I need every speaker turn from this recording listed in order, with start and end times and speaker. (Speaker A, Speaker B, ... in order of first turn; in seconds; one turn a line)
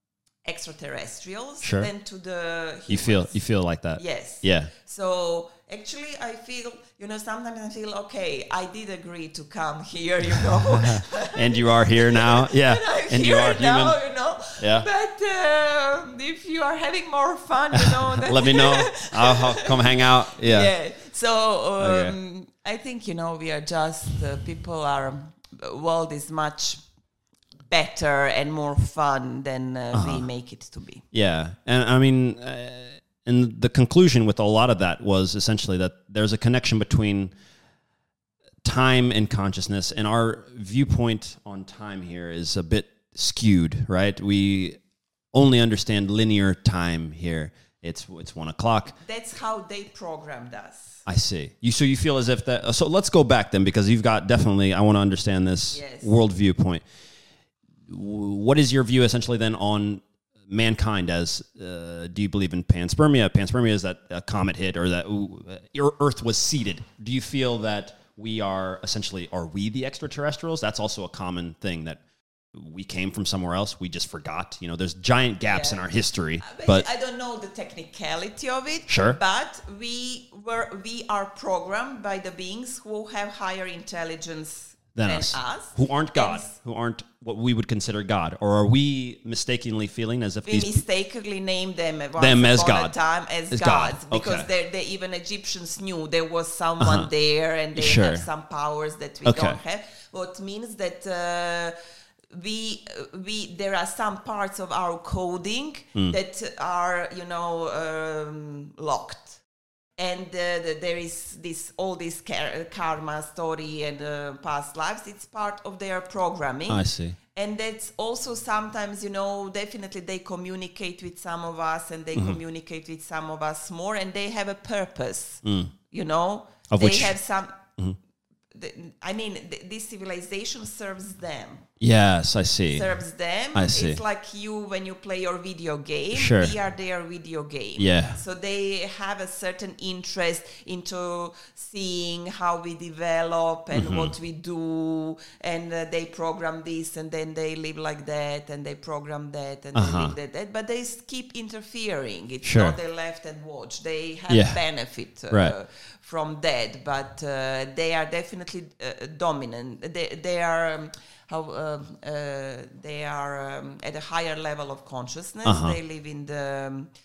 Speaker A: 0.5-3.4
Speaker B: 1.6-1.9
Speaker B: 2.9-4.7
Speaker A: 4.0-26.8
Speaker B: 10.8-14.0
Speaker B: 14.6-14.9
Speaker B: 17.8-20.7
Speaker B: 21.8-22.2
Speaker A: 27.7-31.0
Speaker B: 29.9-30.3
Speaker B: 31.1-37.3
Speaker B: 38.6-44.8
Speaker B: 45.3-49.0
Speaker A: 49.0-51.0
Speaker B: 51.1-56.8
Speaker A: 55.7-56.1
Speaker B: 57.9-72.0
Speaker B: 72.5-76.9
Speaker A: 75.5-75.8
Speaker A: 76.4-86.5
Speaker B: 78.9-79.2
Speaker B: 85.0-90.8
Speaker A: 90.5-101.8
Speaker B: 92.2-93.0
Speaker B: 93.5-94.5
Speaker B: 96.8-97.1
Speaker B: 97.8-98.3
Speaker B: 99.2-99.6
Speaker A: 102.3-109.4
Speaker A: 110.0-127.7
Speaker B: 116.7-117.2
Speaker B: 125.4-125.7
Speaker B: 126.7-127.1
Speaker A: 128.5-131.7
Speaker B: 131.8-132.9
Speaker A: 132.7-166.9
Speaker B: 133.5-134.0
Speaker B: 136.1-136.5
Speaker B: 137.8-138.2
Speaker B: 143.7-144.1
Speaker B: 149.8-150.1
Speaker B: 152.4-152.8
Speaker B: 154.3-154.6
Speaker B: 155.3-155.6
Speaker B: 165.4-165.8